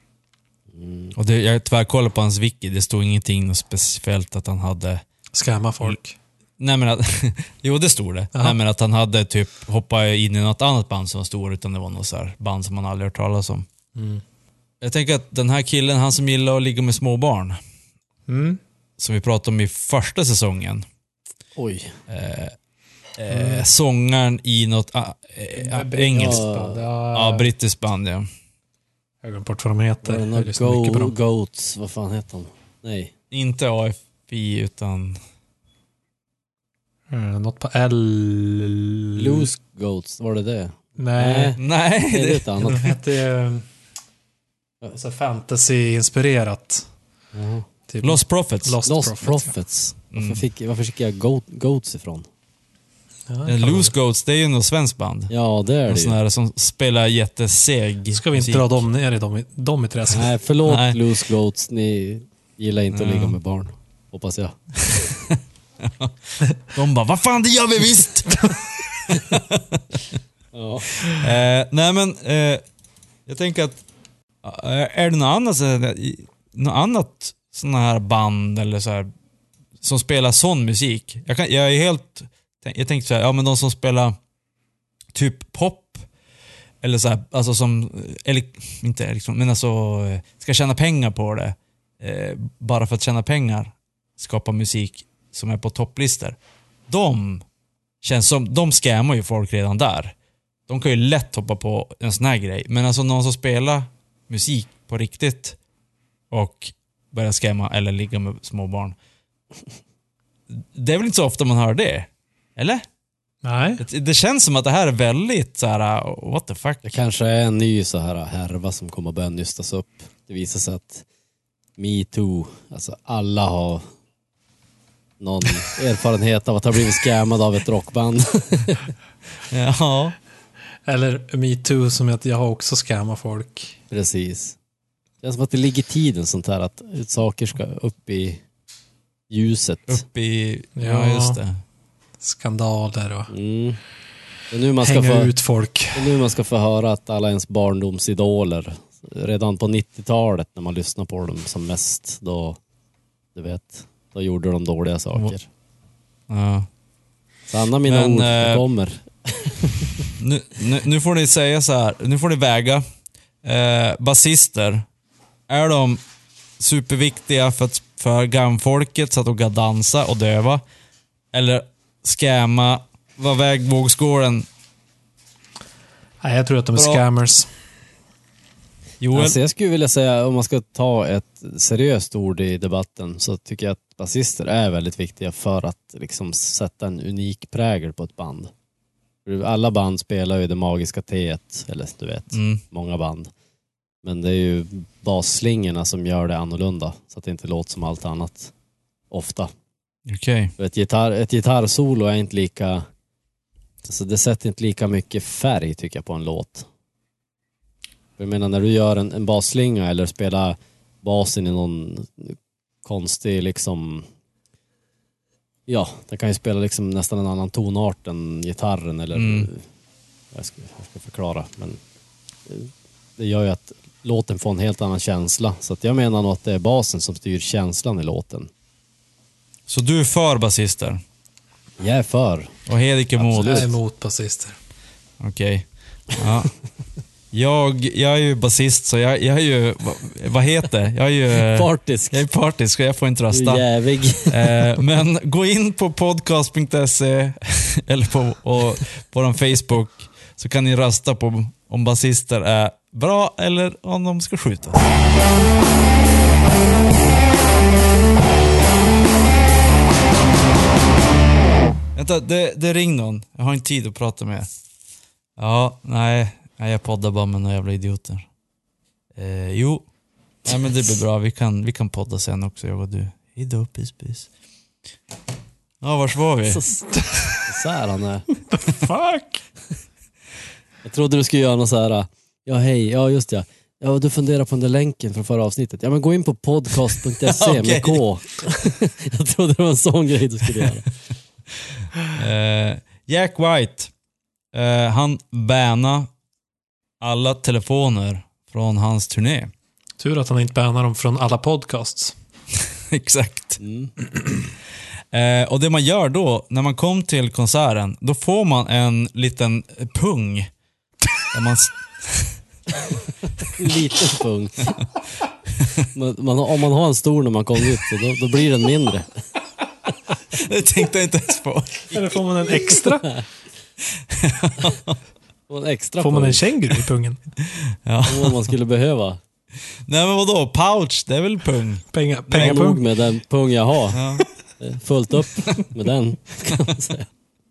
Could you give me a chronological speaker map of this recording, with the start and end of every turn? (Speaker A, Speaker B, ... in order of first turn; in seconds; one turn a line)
Speaker A: 0.7-1.1
Speaker B: 1.1-5.0
Speaker C: 5.3-6.1
Speaker B: 6.6-13.7
Speaker C: 13.9-14.2
Speaker B: 14.8-17.6
Speaker C: 18.3-18.6
Speaker B: 19.0-20.9
Speaker A: 21.6-22.0
Speaker B: 22.1-22.5
Speaker B: 23.2-26.5
Speaker C: 23.3-23.6
Speaker C: 25.5-27.5
Speaker A: 26.2-26.8
Speaker B: 27.1-28.2
Speaker C: 29.2-31.2
Speaker A: 30.0-33.1
Speaker B: 33.3-35.2
Speaker C: 37.1-39.5
Speaker A: 39.1-43.0
Speaker C: 41.0-41.6
Speaker B: 41.6-42.5
Speaker C: 42.6-43.7
Speaker C: 44.9-46.9
Speaker A: 47.3-47.7
Speaker C: 47.9-49.5
Speaker B: 48.0-48.8
Speaker A: 48.8-52.3
Speaker B: 50.1-50.4
Speaker C: 53.3-53.9
Speaker B: 53.4-55.3
Speaker A: 55.3-56.1
Speaker B: 55.9-58.8
Speaker C: 58.1-60.3
Speaker A: 60.1-65.0
Speaker B: 60.6-61.0
Speaker B: 62.9-63.4
Speaker B: 64.8-66.1
Speaker B: 66.7-70.1
Speaker A: 70.5-71.1
Speaker B: 71.0-72.6
Speaker B: 73.3-73.8
Speaker B: 74.4-79.1
Speaker B: 79.8-84.1
Speaker B: 85.1-86.0
Speaker B: 86.8-96.4
Speaker B: 96.9-97.4
Speaker B: 98.0-100.1
Speaker B: 100.7-105.5
Speaker B: 106.3-109.0
Speaker B: 110.5-112.8
Speaker C: 113.4-113.8
Speaker B: 113.8-116.9
Speaker A: 116.8-121.0
Speaker A: 121.8-123.8
Speaker A: 125.2-128.9
Speaker B: 129.5-130.2
Speaker C: 130.8-133.8
Speaker A: 133.9-134.6
Speaker A: 135.2-138.4
Speaker A: 139.3-140.0
Speaker B: 139.9-141.6
Speaker C: 140.8-141.4
Speaker C: 142.2-143.3
Speaker A: 143.3-143.8
Speaker A: 144.5-145.3
Speaker C: 144.8-146.2
Speaker A: 145.9-152.6
Speaker A: 153.3-155.5
Speaker B: 156.3-156.7
Speaker A: 157.5-160.1
Speaker B: 157.9-158.6
Speaker B: 160.2-162.8
Speaker B: 163.4-164.8
Speaker B: 165.5-166.0
Speaker B: 166.6-170.6
Speaker B: 171.3-174.4
Speaker C: 176.2-177.5
Speaker B: 176.8-177.0
Speaker B: 179.0-179.3
Speaker A: 179.1-188.5
Speaker A: 189.2-193.3
Speaker B: 192.3-192.6
Speaker A: 194.0-198.5
Speaker A: 199.1-199.5
Speaker B: 200.1-200.5
Speaker A: 200.6-202.9
Speaker A: 203.8-206.7
Speaker A: 208.2-214.1
Speaker A: 215.7-219.7
Speaker B: 219.1-219.5
Speaker A: 220.3-221.8
Speaker A: 222.5-228.5
Speaker B: 229.7-231.0
Speaker A: 231.8-232.6
Speaker B: 232.7-233.7
Speaker A: 233.2-233.7
Speaker C: 233.3-234.6
Speaker B: 235.2-236.5
Speaker B: 237.3-243.6
Speaker A: 241.4-242.2
Speaker A: 243.3-244.7
Speaker B: 244.2-254.9
Speaker B: 261.9-264.5
Speaker B: 265.4-268.3
Speaker B: 269.1-269.9
Speaker B: 270.4-274.3
Speaker B: 275.8-276.6
Speaker C: 276.9-277.4
Speaker A: 277.4-278.3
Speaker C: 278.5-279.4
Speaker A: 280.8-290.9
Speaker B: 287.3-288.0
Speaker B: 292.0-293.9
Speaker B: 294.5-296.1
Speaker B: 297.0-299.5
Speaker C: 300.0-302.1
Speaker B: 302.9-303.6
Speaker A: 303.6-303.9
Speaker B: 305.1-310.5
Speaker B: 311.3-312.4
Speaker A: 313.5-314.8
Speaker A: 315.9-319.1
Speaker B: 320.3-322.8
Speaker C: 321.9-323.2
Speaker B: 324.1-325.0
Speaker A: 325.5-326.4
Speaker C: 326.0-327.2
Speaker B: 327.8-328.5
Speaker A: 328.1-329.2
Speaker B: 329.9-332.7
Speaker C: 331.9-332.8
Speaker A: 332.4-334.0
Speaker B: 333.9-334.2
Speaker A: 334.6-337.1